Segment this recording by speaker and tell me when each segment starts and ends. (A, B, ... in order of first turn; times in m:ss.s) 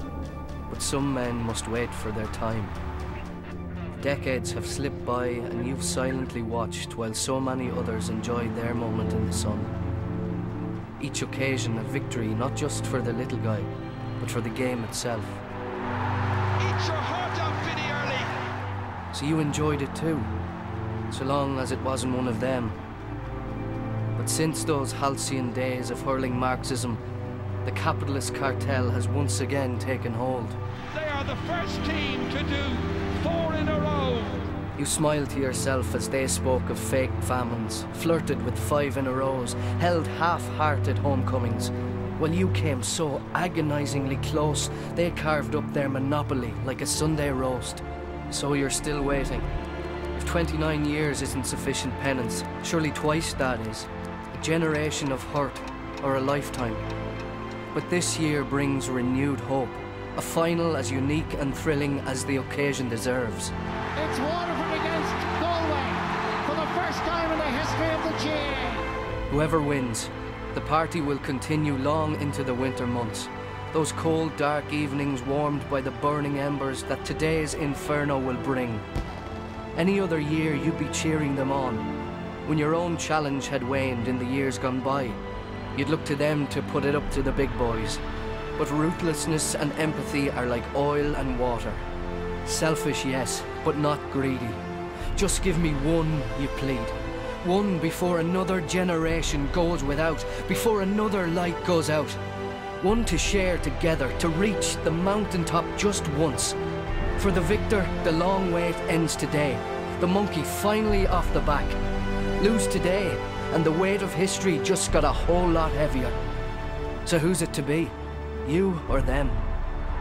0:00.7-0:02.8 A
0:04.0-0:09.7 A
0:11.0-0:15.4 A
0:16.6-0:18.4 B
0:19.1-0:20.3 A
0:21.1-0:22.8 A
0:24.1-0:27.0 A
0:27.6-0:30.6 A
0:30.9-0:34.5 B
0:34.7-0:49.5 A
0:50.2-0:56.8 A
0:57.7-1:03.5 A
1:04.0-1:08.9 C
1:09.3-1:18.8 A
1:19.7-1:25.2 A
1:25.7-1:28.0 A
1:28.6-1:31.8 A
1:32.4-1:34.6 A
1:35.1-1:42.2 A
1:42.8-1:46.6 A
1:47.2-1:51.8 A
1:52.4-1:56.2 A
1:57.0-1:59.4 A